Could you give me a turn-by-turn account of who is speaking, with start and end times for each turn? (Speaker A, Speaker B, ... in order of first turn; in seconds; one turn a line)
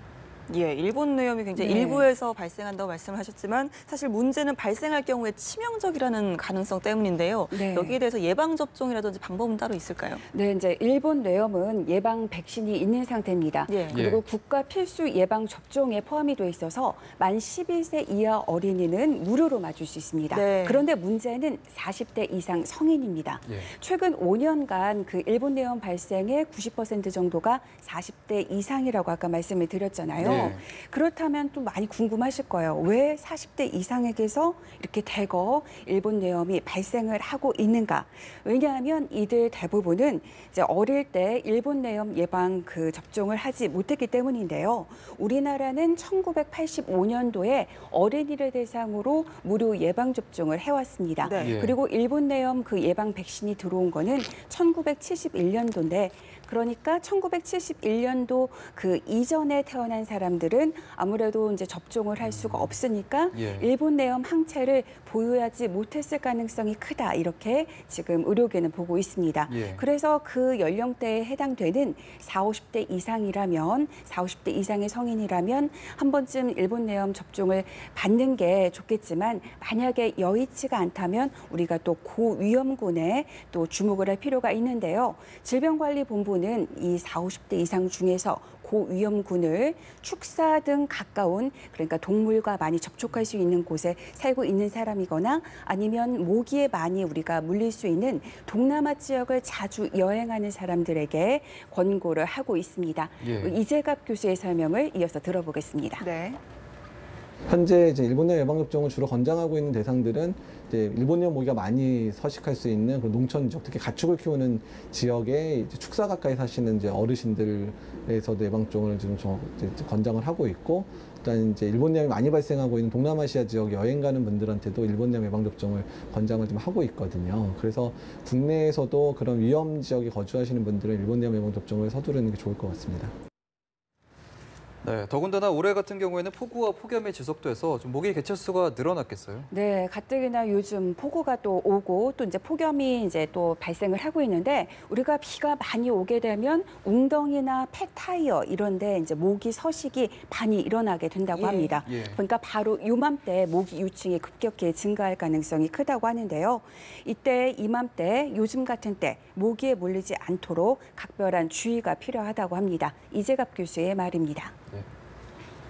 Speaker A: 0.5-10.2
Speaker B: 1.6-2.1
Speaker B: 7.5-8.0
Speaker B: 10.3-106.1
Speaker A: 13.7-14.0
Speaker C: 13.9-14.2
Speaker A: 20.3-20.8
Speaker C: 30.2-30.6
Speaker A: 30.2-30.5
Speaker A: 51.2-51.5
Speaker C: 51.4-51.8
Speaker C: 62.2-62.8
Speaker C: 63.3-63.7
Speaker C: 69.5-69.8
Speaker C: 103.2-103.6
Speaker A: 106.0-106.4
Speaker D: 107.5-133.1
Speaker C: 134.8-139.5
Speaker B: 139.5-164.6
Speaker A: 151.3-151.8
Speaker C: 151.8-152.2